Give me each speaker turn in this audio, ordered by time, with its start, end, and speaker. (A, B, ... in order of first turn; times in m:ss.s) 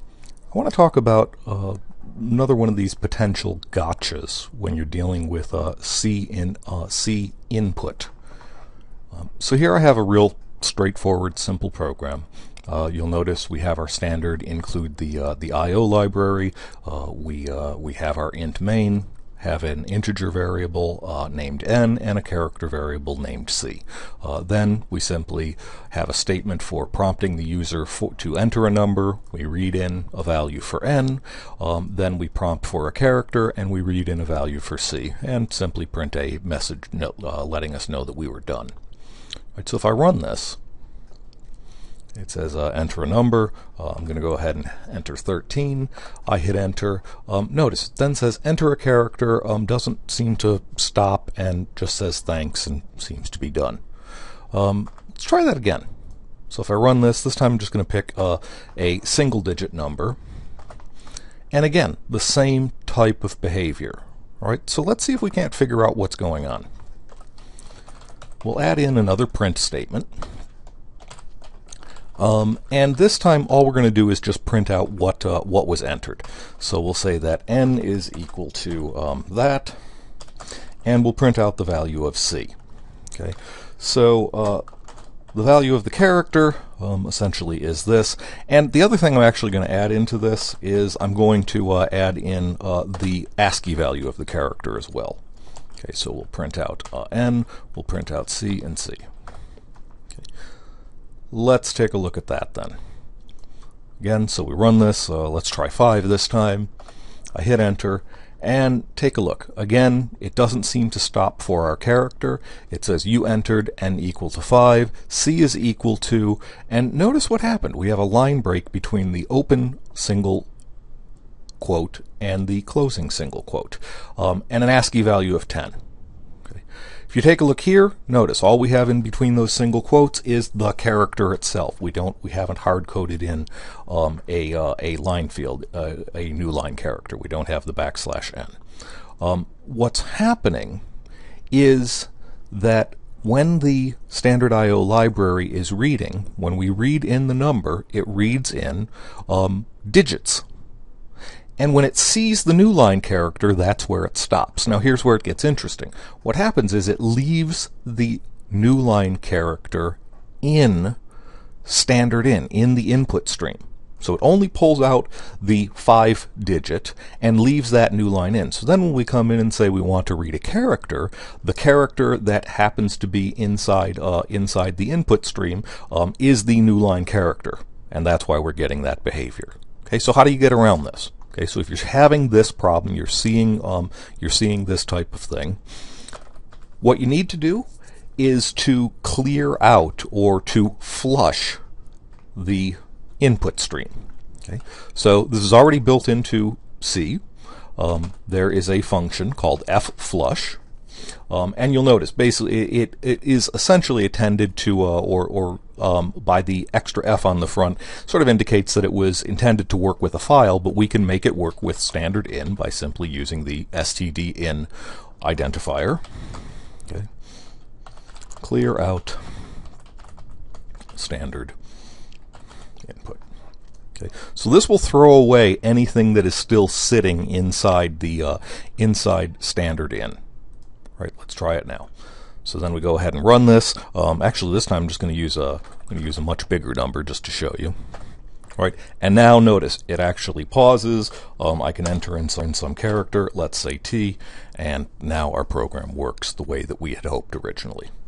0:00.5-0:08.1 A
0:09.1-0:38.7 A
0:39.6-0:40.6 A
0:42.2-0:53.8 A
0:54.5-0:55.9 A
0:56.5-1:00.2 A
1:01.5-1:06.7 A
1:08.4-1:10.1 A
1:12.2-1:19.8 A
1:20.8-1:22.5 A
1:23.1-1:24.6 A
1:25.3-1:35.2 A
1:35.8-1:39.0 A
1:41.3-1:42.8 A
1:44.0-1:46.7 A
1:47.3-2:00.5 A
2:01.6-2:05.8 A
2:06.5-2:18.6 A
2:19.2-2:20.8 A
2:21.5-2:30.4 A
2:31.6-2:41.0 A
2:41.6-3:05.6 A
3:06.8-3:11.6 A
3:12.3-3:17.2 A
3:17.8-3:20.6 A
3:21.3-3:34.7 A
3:35.2-3:36.0 A
3:38.4-3:39.2 A
3:40.9-3:41.5 A
3:42.8-3:43.2 A
3:44.0-3:50.2 A
3:51.0-3:51.9 A
3:52.4-3:57.8 A
3:58.6-4:07.9 A